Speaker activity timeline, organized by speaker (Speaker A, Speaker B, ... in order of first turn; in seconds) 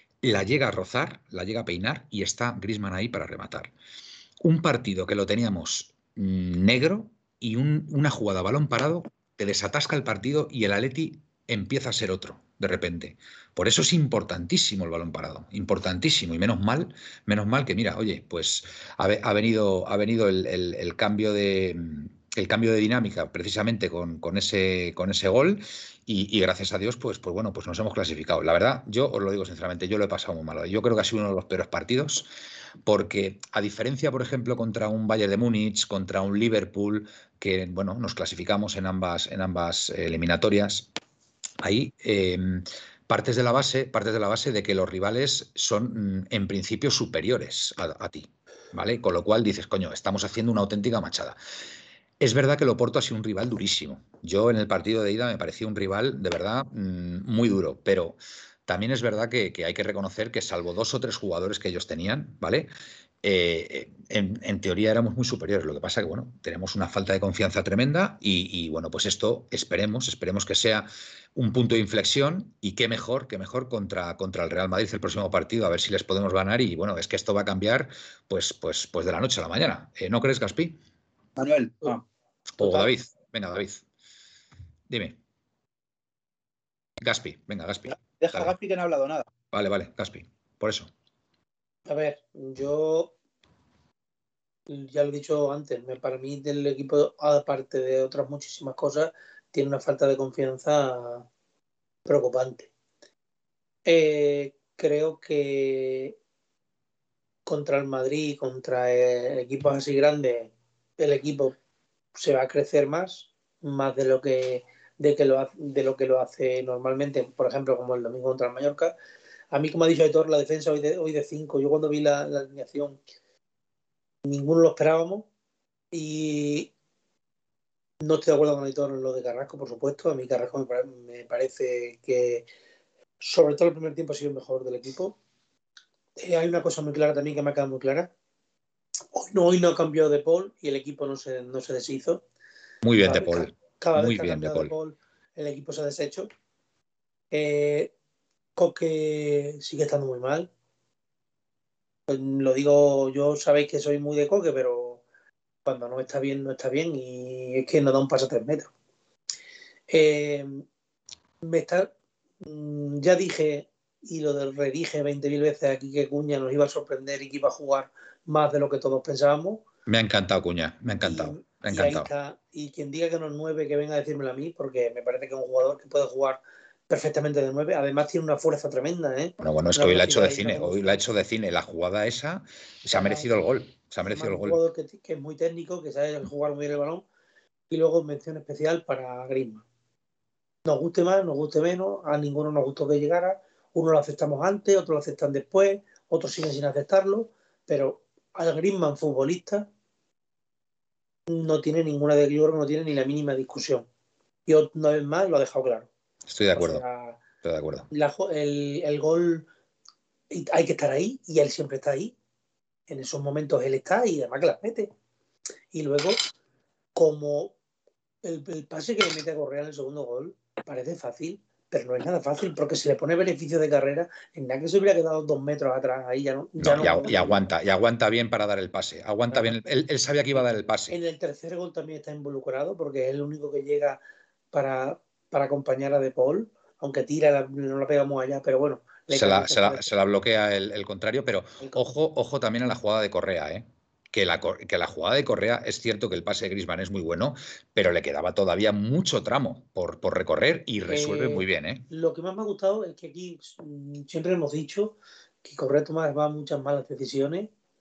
Speaker A: 0.2-3.7, 4.4-32.3, 32.9-40.9, 41.6-51.4, 52.2-62.7, 63.2-80.8, 82.5-83.8, 84.9-85.2, 87.0-88.5, 89.5-90.9, 142.8-144.8, 169.9-172.1, 179.4-184.6, 206.3-206.8, 207.4-207.9, 226.6-231.0, 239.1-251.9
Speaker B: 81.4-82.0, 87.9-89.3
Speaker C: 91.9-93.1, 94.7-101.3, 102.1-102.7, 103.9-106.2, 107.5-111.6, 112.2-119.0, 119.5-123.0, 124.2-125.3, 125.9-126.7, 128.0-132.5, 133.2-135.2, 136.2-138.1, 139.1-142.2, 143.0-146.3, 147.3-147.9, 148.6-150.5, 152.1-155.0, 155.7-158.7, 159.9-160.7, 161.4-161.9, 162.4-169.6, 171.0-181.0, 182.9-183.3, 184.1-187.1, 187.7-189.6, 190.7-199.7, 201.3-203.9, 204.5-205.9, 206.5-207.2, 207.9-209.5, 210.3-212.2, 212.9-214.9, 215.7-216.2, 216.9-217.6, 218.2-227.4, 230.9-234.0, 234.5-239.9, 250.9-257.5